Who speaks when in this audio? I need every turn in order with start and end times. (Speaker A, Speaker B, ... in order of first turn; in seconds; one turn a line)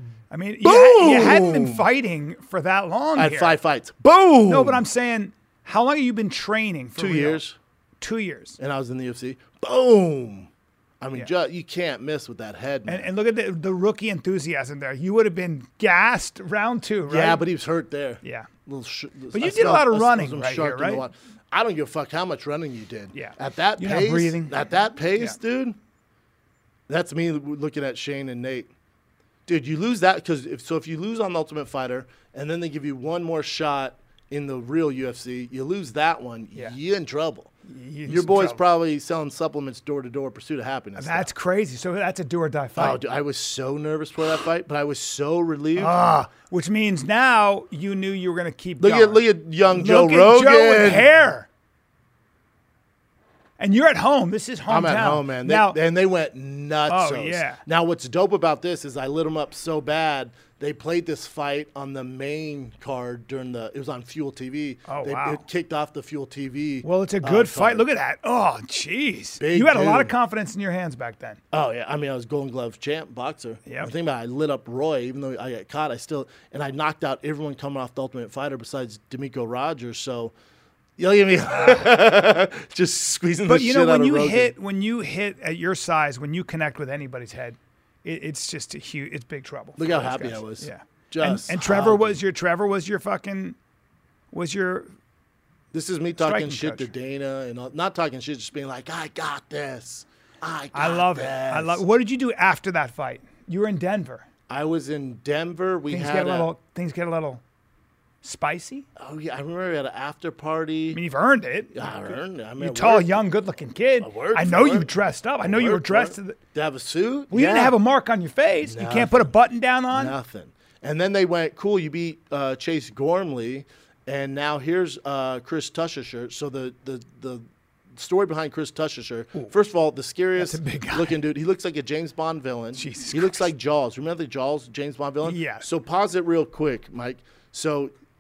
Speaker A: 0.3-3.6
Speaker B: 0.6-1.9
Speaker B: 3.2-4.8
Speaker A: 4.5-7.4
Speaker B: 7.0-7.6
Speaker A: 8.0-8.6
Speaker B: 8.6-13.1
Speaker A: 12.9-17.4
Speaker B: 17.1-25.8
Speaker A: 18.2-18.5
Speaker A: 19.3-21.1
Speaker A: 23.1-24.6
Speaker B: 26.9-28.7
Speaker B: 29.5-37.5
Speaker A: 37.7-38.6
Speaker B: 38.1-41.3
Speaker A: 41.0-43.0
Speaker B: 42.8-46.0
Speaker A: 45.8-51.5
Speaker B: 48.8-51.1
Speaker A: 53.6-55.8
Speaker B: 54.7-67.8
Speaker A: 56.9-57.6
Speaker A: 64.9-65.4
Speaker A: 66.8-71.4
Speaker B: 69.4-70.1
Speaker B: 71.5-80.3
Speaker A: 73.7-73.9
Speaker B: 81.0-84.5
Speaker A: 83.5-93.6
Speaker B: 89.8-92.1
Speaker A: 94.3-94.9
Speaker B: 95.7-101.8
Speaker A: 96.2-96.9
Speaker A: 100.7-104.3
Speaker B: 104.5-106.5
Speaker A: 105.9-107.4
Speaker A: 108.2-108.9
Speaker B: 109.0-111.0
Speaker A: 110.9-116.4
Speaker B: 111.7-113.3
Speaker B: 114.0-114.9
Speaker B: 115.4-117.8
Speaker A: 117.3-120.2
Speaker B: 118.6-119.3
Speaker B: 119.9-137.9
Speaker A: 130.4-131.2
Speaker A: 132.8-133.5
Speaker A: 135.2-135.7